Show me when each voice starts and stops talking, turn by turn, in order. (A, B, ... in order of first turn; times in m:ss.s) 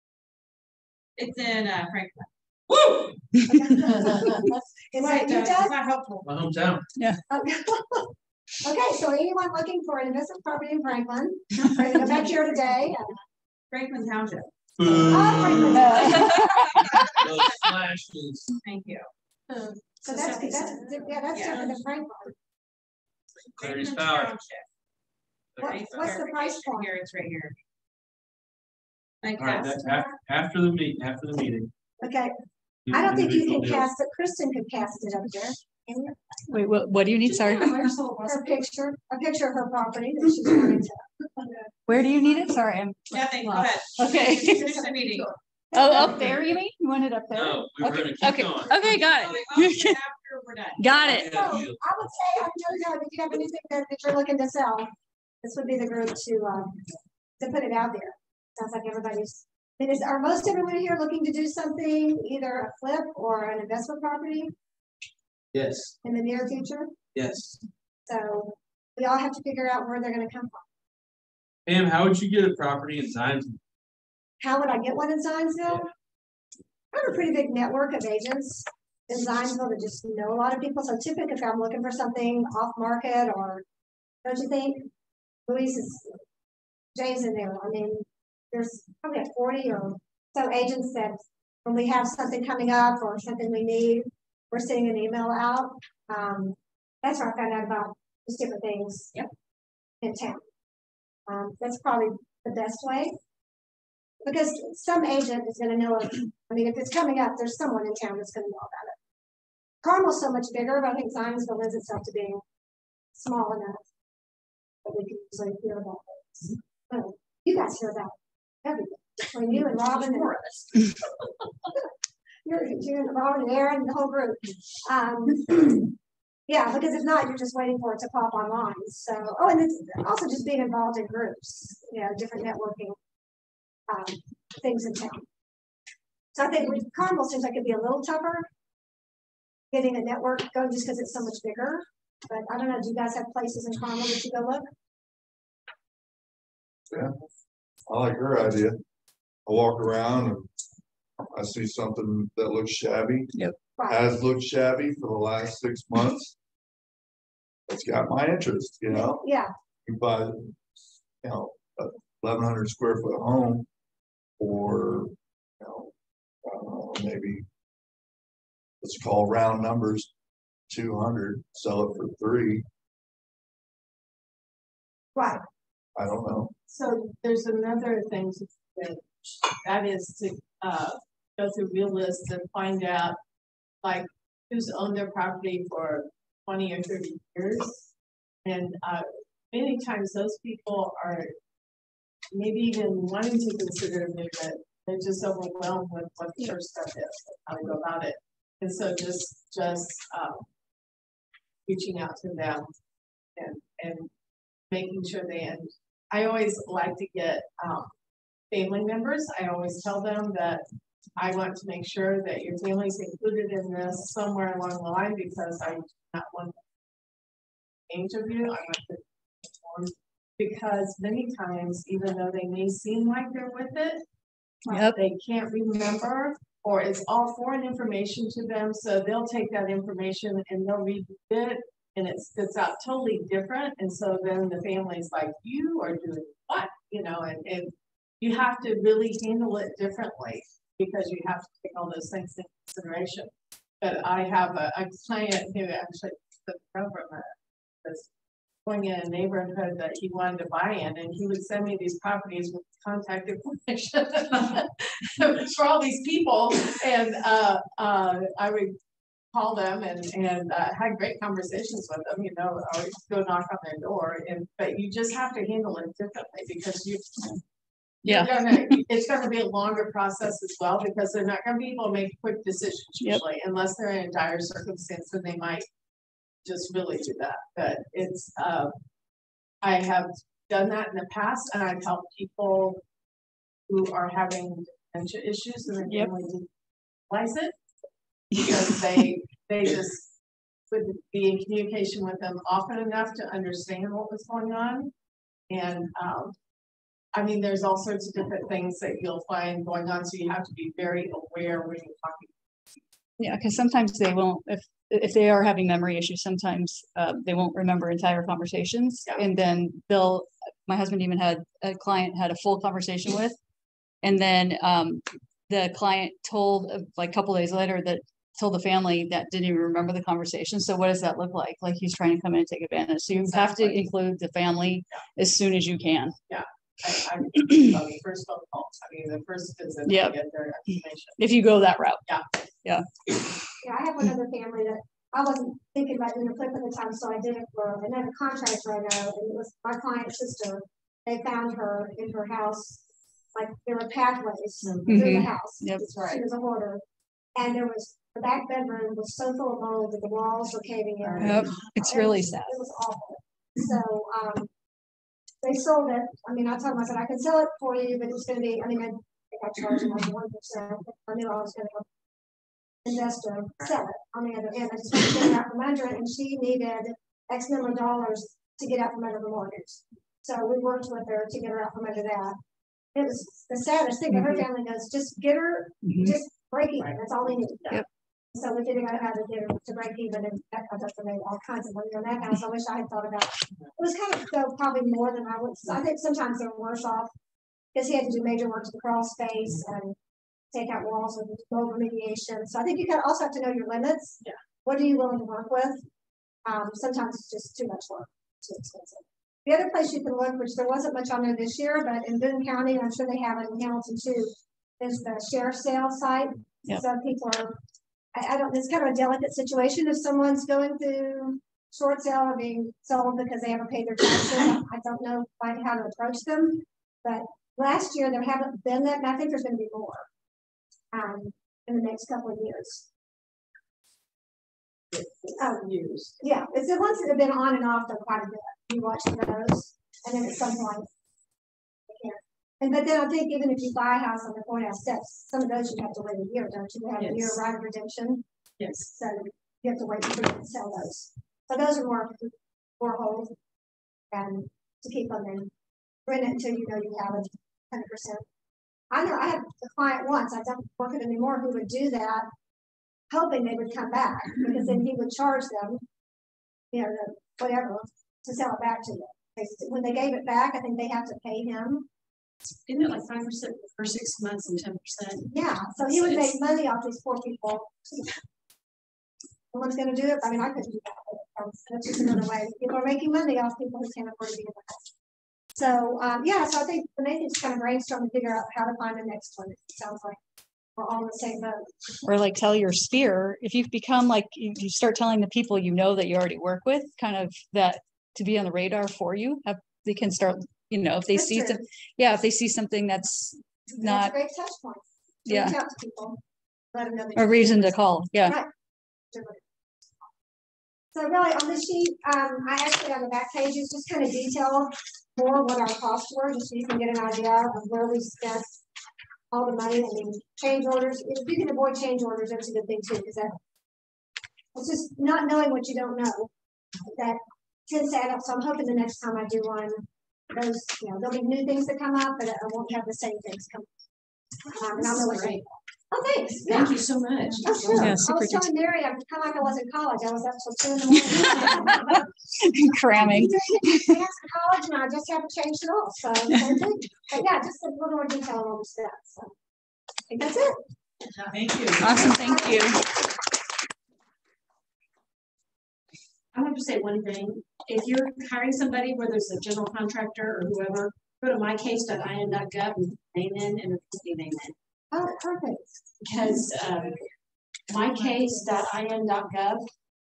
0:01.2-0:03.1 A
0:03.5-0:05.8 B
0:03.9-0:06.2 A
0:06.2-0:06.8 C
0:07.0-0:07.2 D
0:07.3-0:13.1 B
0:11.9-0:12.2 A
0:13.7-0:14.5 A
0:14.8-0:18.5 C
0:15.1-0:16.4 B
0:15.7-0:17.0 D
0:16.1-0:16.4 A
0:18.6-0:21.8 A
0:20.0-0:22.3 B
0:23.3-0:24.6 A
0:23.6-0:24.3 C
0:25.5-0:25.9 C
0:25.6-0:27.6 A
0:25.6-0:26.9 B
0:29.2-0:30.0 A
0:29.4-0:31.7 C
0:32.0-0:32.3 B
0:32.8-0:33.9 C
0:32.9-0:36.6 B
0:36.5-0:38.0 D
0:37.3-0:38.4 A
0:38.2-0:41.6 B
0:41.9-0:44.9 D
0:43.1-0:45.3 A
0:44.5-0:46.5 B
0:45.7-0:50.0 D
0:47.3-0:48.9 C
0:48.8-0:51.2 A
0:50.8-0:51.4 D
0:51.1-0:54.9 B
0:51.1-0:51.8 C
0:55.4-0:56.8 B
0:57.4-1:04.5 B
1:05.5-1:05.9 C
1:06.0-1:06.9 B
1:07.1-1:07.6 C
1:08.0-1:10.6 B
1:11.6-1:13.6 C
1:14.4-1:15.9 B
1:16.9-1:23.6 B
1:24.2-1:24.9 B
1:25.5-1:26.2 B
1:26.9-1:39.1 B
1:40.0-1:40.4 B
1:41.3-1:43.1 B
1:44.2-1:49.0 B
1:49.8-1:52.4 B
1:53.1-1:53.8 B
1:54.8-2:00.4 B
2:02.4-2:05.9 B
2:06.5-2:13.0 B
2:13.9-2:15.2 B
2:16.3-2:18.5 B
2:19.7-2:24.7 B
2:27.9-2:28.8 E
2:29.4-2:30.5 E
2:31.3-2:33.3 E
2:33.8-2:34.1 B
2:33.9-2:36.3 E
2:37.7-2:39.2 E
2:38.9-2:39.5 B
2:39.8-2:40.6 E
2:41.2-2:43.7 E
2:44.4-2:47.4 E
2:48.8-2:50.1 E
2:50.7-2:52.6 E
2:55.2-2:55.4 B
2:55.9-2:56.5 E
2:56.7-3:03.2 F
3:03.8-3:07.9 F
3:08.4-3:11.3 F
3:12.3-3:20.5 F
3:21.6-3:22.7 F
3:23.4-3:24.1 F
3:24.7-3:27.9 F
3:28.5-3:30.6 F
3:31.2-3:36.6 F
3:37.9-3:44.0 F
3:44.7-3:45.0 D
3:44.9-4:08.1 F
4:08.6-4:18.8 F
4:19.3-4:27.4 F
4:28.0-4:35.6 F
4:28.0-4:28.8 D
4:36.4-4:38.8 F
4:39.6-4:42.8 F
4:43.7-4:46.5 F
4:47.1-4:47.5 F
4:48.3-4:50.1 F
4:48.4-4:49.0 D
4:50.7-4:54.9 F
4:55.5-4:56.3 F
4:57.1-5:02.3 F
5:03.2-5:13.4 D
5:14.0-5:26.2 D
5:23.1-5:23.8 F
5:26.3-5:31.2 F
5:29.8-5:30.2 D
5:31.2-5:32.0 D
5:32.6-5:33.2 D
5:33.6-5:42.8 B
5:43.3-5:46.8 B
5:44.9-5:46.2 D
5:47.4-5:54.5 B
5:51.2-5:52.6 D
5:55.4-6:01.8 B
6:02.8-6:12.4 B
6:12.9-6:27.1 B
6:15.8-6:16.1 D
6:27.7-6:30.0 B
6:30.5-6:35.8 B
6:36.4-6:47.6 B
6:48.1-7:00.1 B
7:00.9-7:02.8 B
7:04.9-7:06.1 F
7:05.4-7:05.6 B
7:06.2-7:10.9 B
7:11.9-7:18.2 B
7:18.8-7:23.3 B
7:24.1-7:25.5 B
7:26.0-7:28.2 B
7:28.9-7:32.3 B
7:33.1-7:35.8 B
7:36.7-7:41.9 B
7:42.7-7:45.2 G
7:45.3-7:48.1 B
7:49.5-7:54.9 B
7:55.5-8:00.2 B
8:00.8-8:01.7 B
8:02.0-8:14.1 D
8:11.1-8:11.6 B
8:13.7-8:16.2 B
8:15.3-8:15.6 D
8:16.7-8:18.5 B
8:17.2-8:18.4 D
8:19.1-8:19.4 B
8:20.9-8:28.6 B
8:29.3-8:33.3 B
8:34.5-8:36.3 B
8:36.9-8:43.7 B
8:44.5-8:46.8 B
8:46.9-8:47.4 G
8:47.3-8:52.0 B
8:47.7-8:48.5 D
8:51.2-8:54.0 D
8:52.9-8:59.3 B
9:00.1-9:00.6 B
9:01.3-9:02.0 A
9:01.7-9:02.8 D
9:02.2-9:02.6 B
9:06.4-9:10.7 G
9:11.3-9:14.5 G
9:14.9-9:15.7 B
9:16.1-9:16.9 G
9:18.0-9:18.4 B
9:18.6-9:19.6 G